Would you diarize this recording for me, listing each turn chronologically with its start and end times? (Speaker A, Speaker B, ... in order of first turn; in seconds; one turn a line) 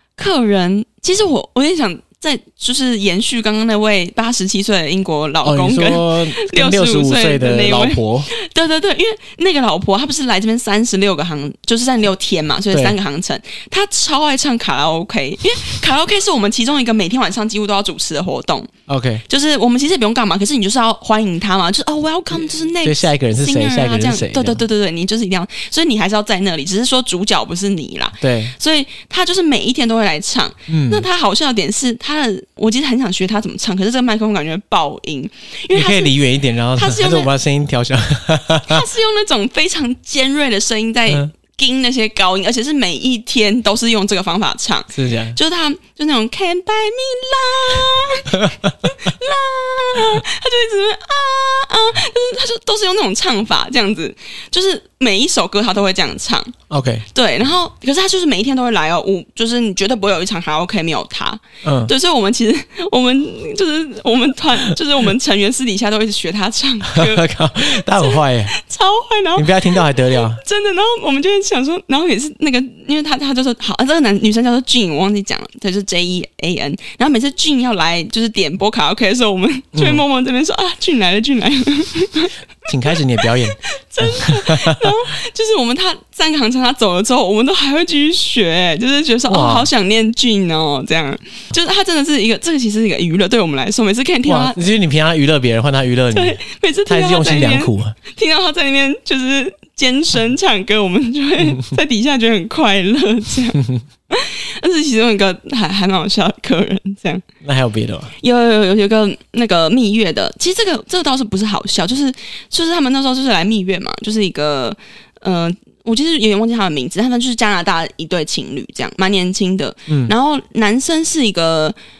Speaker A: 0.2-18.7
Speaker B: 5.4-8.3
Speaker B: 18.9-19.2
Speaker A: 19.3-36.1
Speaker B: 22.8-24.6
Speaker B: 28.2-28.5
Speaker B: 30.7-31.1
Speaker B: 35.7-38.8
Speaker A: 36.7-37.3
Speaker A: 38.7-56.5
Speaker B: 44.9-45.4
Speaker B: 48.3-48.9
Speaker B: 56.7-57.0
Speaker A: 57.1-82.3
Speaker B: 61.6-61.9
Speaker B: 66.9-68.5
Speaker B: 69.3-70.4
Speaker B: 79.7-80.0
Speaker B: 82.7-84.9
Speaker A: 82.9-94.6
Speaker B: 89.3-89.7
Speaker B: 94.2-98.0
Speaker A: 96.1-107.2
Speaker B: 107.4-108.1
Speaker A: 108.2-121.8
Speaker B: 119.9-120.1